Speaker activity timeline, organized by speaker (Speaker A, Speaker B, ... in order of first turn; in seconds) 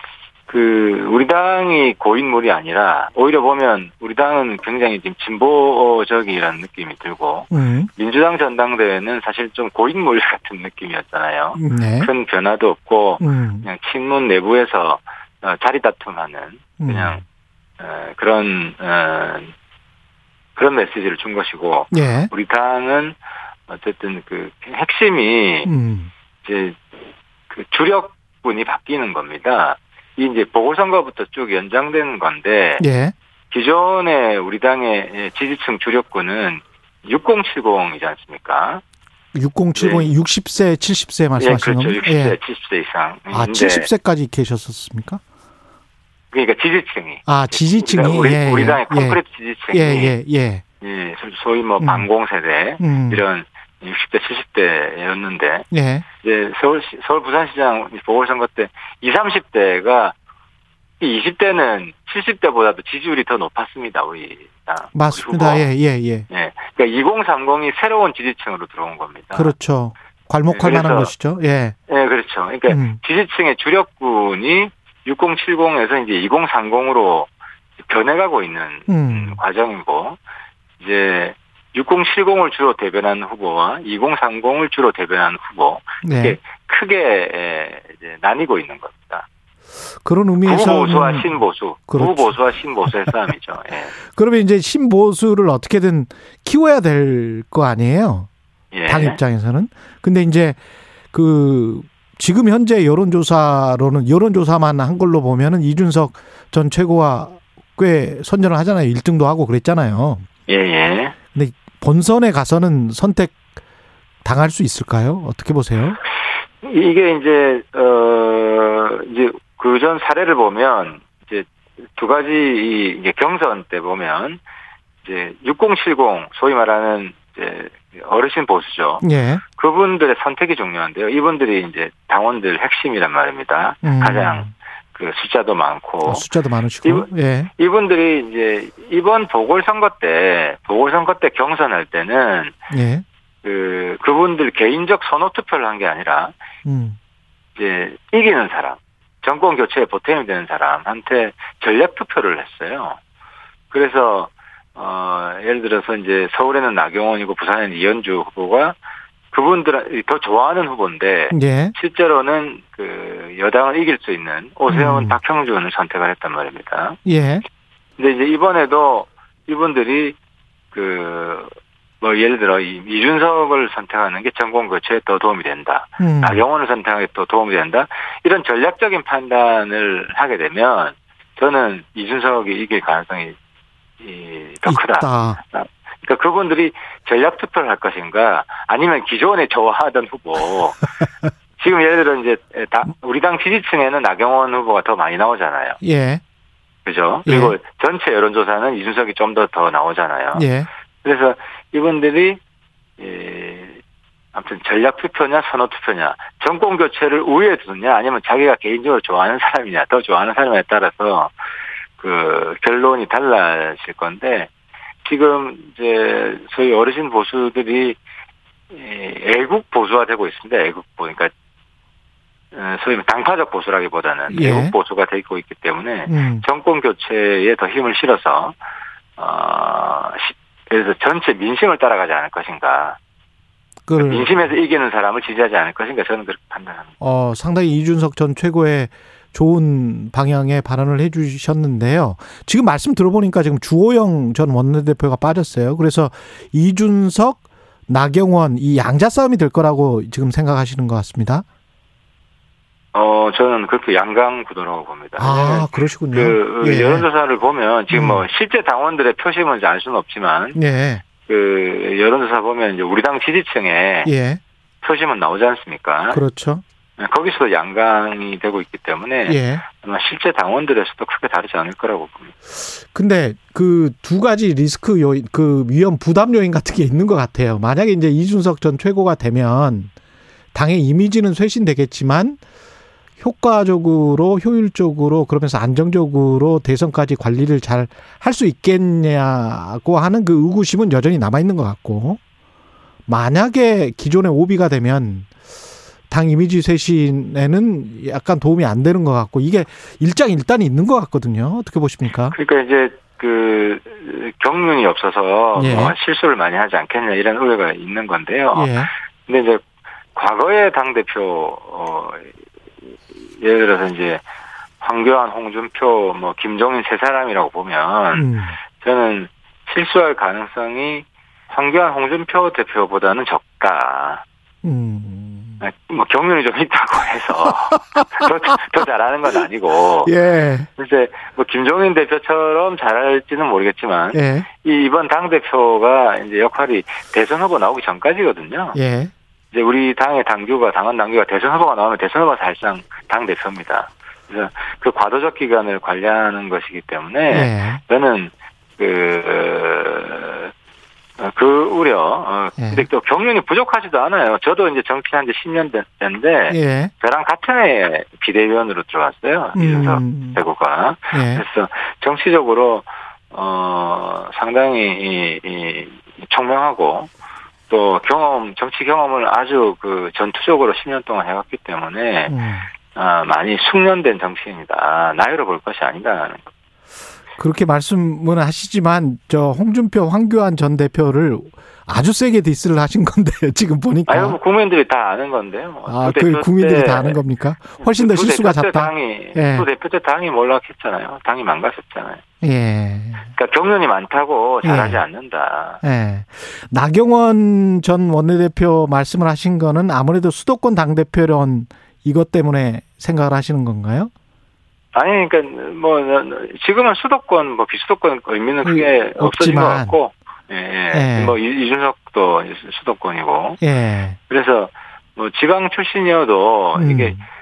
Speaker A: 0.5-17.2, 17.8-19.5, 20.6-25.7, 26.4-26.8, 27.5-32.9, 33.5-38.8, 39.8-40.1, 41.4-43.9, 46.3-50.1, 50.8-55.7, 56.2-60.1, 61.0-65.7, 66.3-69.5, 70.5-71.1, 71.9-77.3, 77.8-80.2, 80.8-89.3, 90.4-93.9, 98.7-99.2, 110.5-111.1, 116.6-124.4, 125.0-136.3, 136.8-142.6, 143.4-146.3, 147.6-153.0, 153.7-158.8, 159.3-167.0, 168.0-170.2, 170.7-183.3, 184.0-190.9, 191.6-195.8, 196.8-200.5, 201.0-202.4, 203.0-203.8, 204.3-211.3, 212.0-214.5, 215.0-218.0, 218.7-221.3, 222.5-228.6, 229.2-233.0, 233.9-236.9, 252.9-260.6, 261.2-264.1, 264.8-266.2, 267.0-272.3, 302.3-309.6, 310.1-312.3, 313.2-314.2, 314.8-324.2, 325.6-330.1, 330.8-338.8, 339.5-350.5, 351.2-367.1, 367.7-372.4, 372.9-376.5, 384.1-387.2, 387.8-392.2, 393.3-395.8, 404.9-413.6, 414.3-417.2
Speaker B: 7.5-7.9, 11.5-12.1, 13.2-13.7, 16.8-17.2, 21.9-22.3, 25.6-26.1, 32.8-33.1, 39.3-42.4, 43.3-45.2, 47.2-50.6, 51.8-52.1, 52.8-53.2, 55.7-56.0, 64.9-66.2, 69.3-71.8, 72.7-73.0, 78.9-79.4, 86.0-86.4, 90.0-91.3, 91.9-92.3, 94.1-98.3, 98.9-100.6, 101.1-110.2, 111.3-113.4, 114.2-116.0, 129.0-129.4, 133.8-134.5, 136.0-137.5, 142.7-143.0, 146.6-147.0, 161.3-161.7, 164.7-165.2, 167.0-167.4, 176.0-176.4, 184.7-185.4, 195.8-196.2, 197.2-197.6, 200.3-200.7, 224.3-224.8, 226.1-226.4, 233.8-234.4, 237.0-251.4, 255.2-257.1, 257.9-258.2, 260.5-261.0, 264.0-264.4, 266.1-266.6, 269.2-269.6, 272.6-279.9, 280.5-282.4, 283.2-292.2, 293.1-295.3, 296.1-302.3, 305.6-305.9, 308.5-308.9, 318.1-318.6, 324.6-325.6, 330.0-330.7, 334.1-334.5, 338.7-339.1, 347.3-347.8, 352.6-352.9, 356.5-356.9, 359.5-360.4, 361.1-361.4, 372.3-372.7, 377.4-384.4, 385.9-389.7, 392.4-393.3, 394.6-395.0, 395.8-404.1, 408.6-410.0, 410.9-411.4, 413.6-414.2, 416.8-417.2